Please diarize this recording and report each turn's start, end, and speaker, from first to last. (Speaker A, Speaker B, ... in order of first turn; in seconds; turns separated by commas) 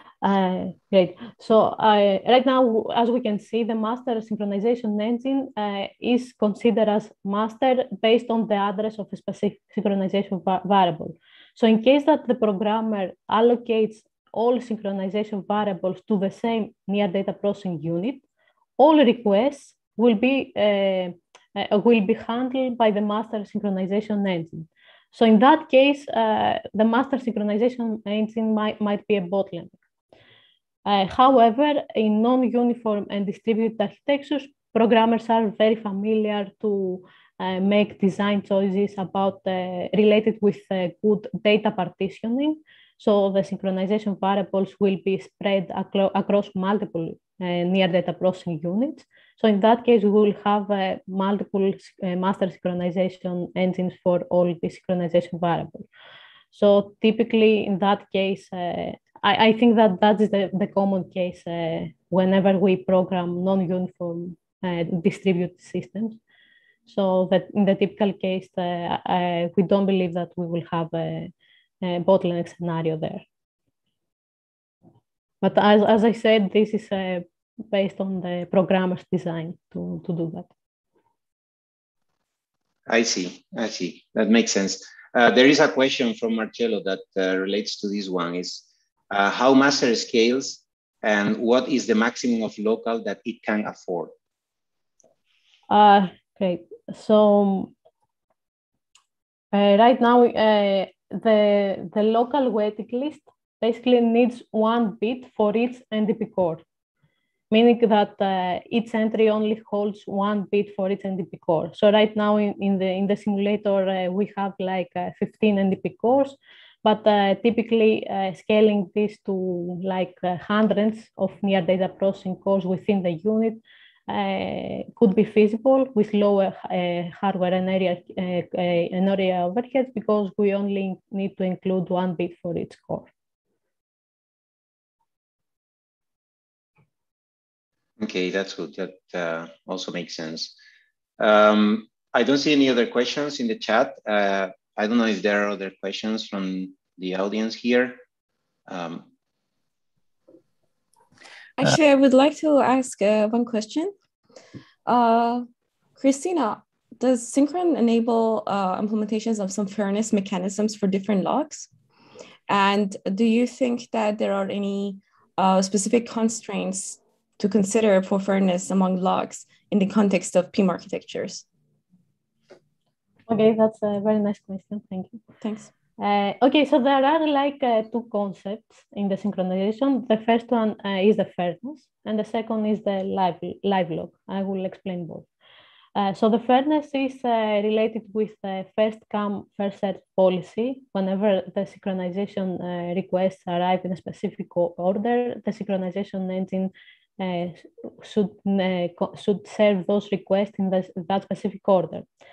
Speaker A: 0.2-18.2, Speaker A: 18.8-29.8, Speaker A: 30.9-55.9, Speaker A: 56.5-66.2, Speaker A: 66.9-73.2, Speaker A: 75.4-80.5, Speaker B: 82.9-94.1, Speaker A: 95.7-97.7, Speaker A: 99.5-106.6, Speaker A: 107.5-133.1, Speaker B: 138.0-140.6, Speaker B: 141.2-148.0, Speaker B: 148.7-149.1, Speaker C: 151.6-153.9, Speaker C: 154.9-161.7, Speaker C: 162.5-171.5, Speaker A: 173.3-175.2, Speaker C: 175.4-175.7, Speaker A: 176.0-185.3, Speaker A: 186.0-202.1